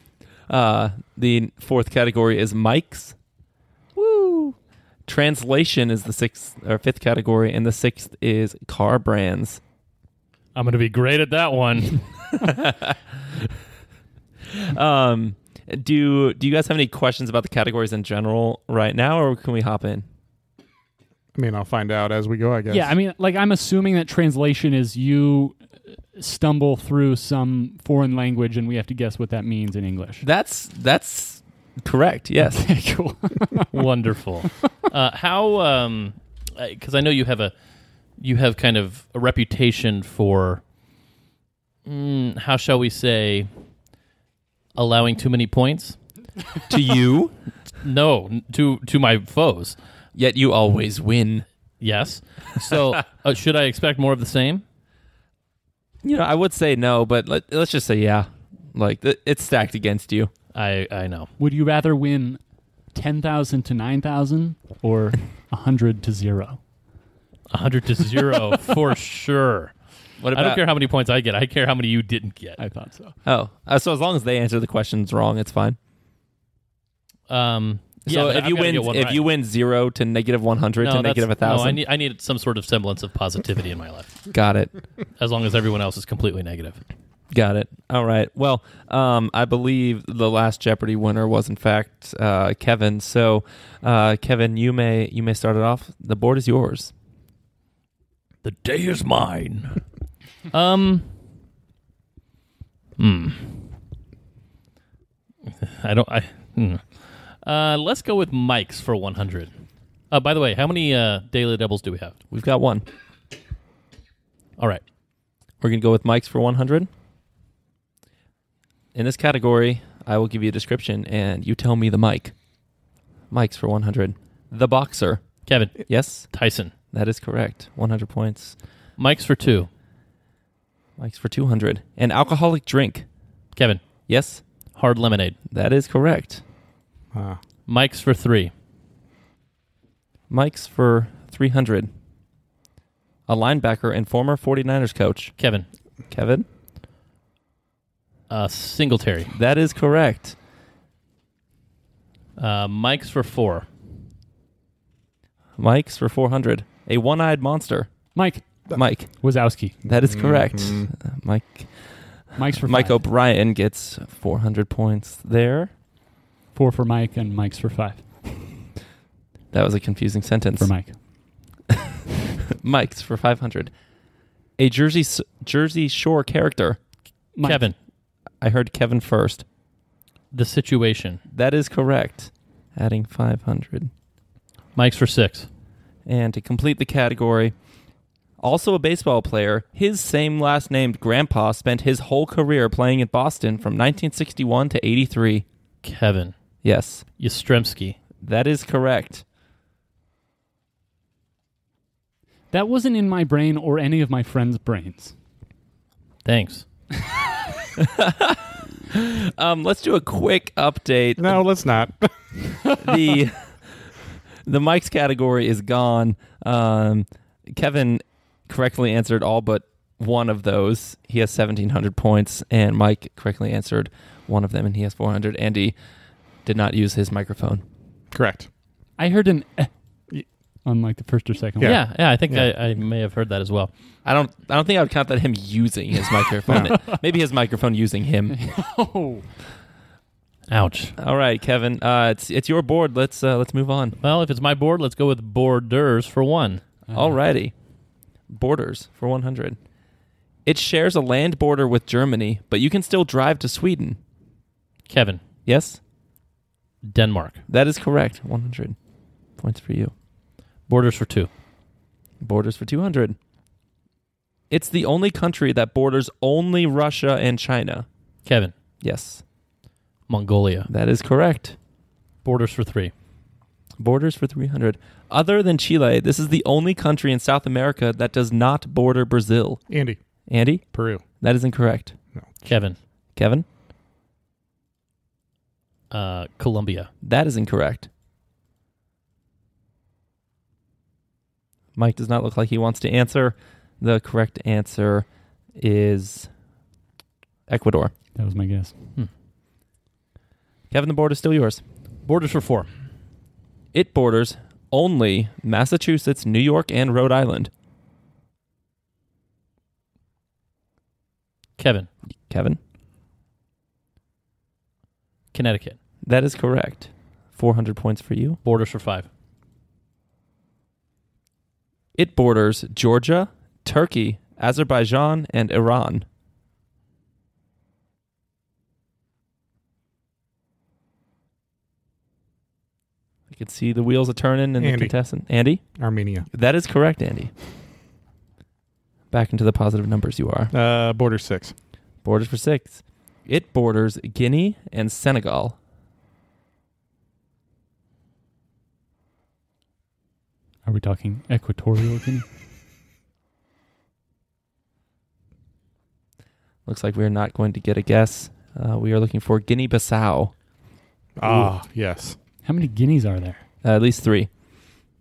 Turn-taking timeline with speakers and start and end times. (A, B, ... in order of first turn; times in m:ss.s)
0:00.5-0:03.2 A
0:04.0-0:09.6 A
0:10.5-0:12.0 B
0:12.3-0:13.5 A
0:14.5-0:20.0 A
0:21.3-0:22.9 C
0:22.7-0:25.6 D
0:26.1-0:30.2 D
0:30.2-0:32.7 A
0:32.4-0:33.7 D
0:33.7-0:37.5 B
0:38.2-0:40.6 B
0:41.8-0:43.5 B
0:44.7-0:46.0 B
0:46.7-0:47.3 A
0:47.8-0:49.8 B
0:50.1-0:51.4 A
0:51.8-0:54.6 B
0:56.0-1:00.3 A
1:00.5-1:01.3 B
1:01.4-1:02.4 D
1:02.9-1:06.6 D
1:07.5-1:09.7 B
1:10.2-1:10.6 A
1:10.3-1:12.6 B
1:12.6-1:13.2 D
1:13.2-1:15.8 A
1:17.3-1:19.2 B
1:18.0-1:21.8 A
1:20.8-1:24.3 B
1:24.3-1:24.7 A
1:25.2-1:26.8 B
1:27.3-1:36.9 A
1:38.4-1:39.8 B
1:40.5-1:41.1 B
1:43.0-1:43.6 B
1:45.4-1:49.5 B
1:50.1-1:52.2 B
1:52.3-1:52.8 A
1:54.6-1:54.8 B
1:55.6-1:56.9 A
1:58.9-2:02.3 A
2:03.3-2:06.3 A
2:05.5-2:06.7 B
2:06.9-2:08.5 A
2:09.0-2:09.7 B
2:11.0-2:13.0 A
2:13.6-2:14.0 B
2:14.0-2:14.4 A
2:14.7-2:15.4 B
2:15.5-2:16.4 A
2:17.1-2:17.4 C
2:17.6-2:18.5 B
2:20.3-2:21.9 A
2:23.3-2:25.4 A
2:25.4-2:25.6 B
2:26.1-2:26.4 A
2:28.3-2:29.3 B
2:29.3-2:30.4 A
2:32.4-2:33.7 B
2:35.6-2:38.1 A
2:38.1-2:39.8 D
2:38.7-2:39.3 A
2:39.8-2:45.7 A
2:39.8-2:40.9 C
2:42.4-2:43.0 D
2:46.5-2:48.0 D
2:49.5-2:50.7 A
2:50.6-2:50.9 D
2:52.6-2:53.7 A
2:54.6-2:56.8 A
2:57.3-2:57.7 D
2:57.4-2:57.7 B
2:58.4-2:59.4 A
3:00.3-3:01.2 B
3:01.3-3:03.9 A
3:04.7-3:05.5 B
3:06.0-3:07.5 A
3:08.4-3:15.4 A
3:15.8-3:16.4 B
3:16.6-3:17.0 A
3:17.2-3:18.0 B
3:18.2-3:19.2 A
3:22.5-3:25.1 D
3:26.2-3:26.6 B
3:27.8-3:31.4 A
3:31.2-3:32.4 C
3:32.8-3:33.6 A
3:34.4-3:45.7 A
3:46.4-3:47.6 A
3:48.1-3:48.5 C
3:49.0-3:49.7 D
3:50.6-3:51.8 D
3:51.6-3:52.5 C
3:51.6-3:53.7 B
3:54.0-3:58.4 A
3:56.5-3:56.8 C
3:58.3-3:59.3 D
4:00.5-4:00.9 B
4:01.0-4:04.0 A
4:04.0-4:06.6 B
4:06.9-4:07.1 D
4:06.9-4:07.5 A
4:08.3-4:09.6 A
4:10.4-4:14.0 A
4:14.9-4:15.2 B
4:15.4-4:15.8 A
4:16.8-4:17.4 B
4:17.5-4:18.8 A
4:19.4-4:19.9 A
4:20.7-4:21.3 B
4:22.2-4:23.2 A
4:24.5-4:27.9 A
4:28.2-4:28.5 B
4:28.8-4:29.2 A
4:30.1-4:30.7 B
4:30.7-4:31.6 A
4:32.2-4:32.9 B
4:33.8-4:39.6 A
4:39.7-4:40.0 C
4:40.3-4:40.6 A
4:40.7-4:41.0 C
4:41.2-4:42.0 A
4:42.1-4:42.4 C
4:42.4-4:42.8 B
4:43.1-4:43.4 A
4:45.9-4:46.9 B
4:47.0-4:47.9 A
4:51.7-4:56.3 A
4:57.5-4:57.9 A
4:58.2-4:58.7 D
5:00.7-5:01.6 A
5:02.0-5:02.7 B
5:03.7-5:07.5 A
5:11.6-5:11.9 B
5:12.3-5:12.6 A
5:15.3-5:15.8 B
5:16.0-5:18.4 A
5:18.4-5:19.1 B
5:21.9-5:26.0 A
5:33.3-5:35.6 A
5:34.6-5:34.9 C
5:35.8-5:36.3 C
5:36.3-5:37.3 A
5:39.1-5:40.5 A
5:40.5-5:41.5 C
5:42.0-5:45.6 A
5:50.6-5:52.2 D
5:56.6-6:00.3 A
6:01.2-6:02.2 C
6:01.2-6:01.5 D
6:02.4-6:03.4 D
6:03.6-6:04.3 A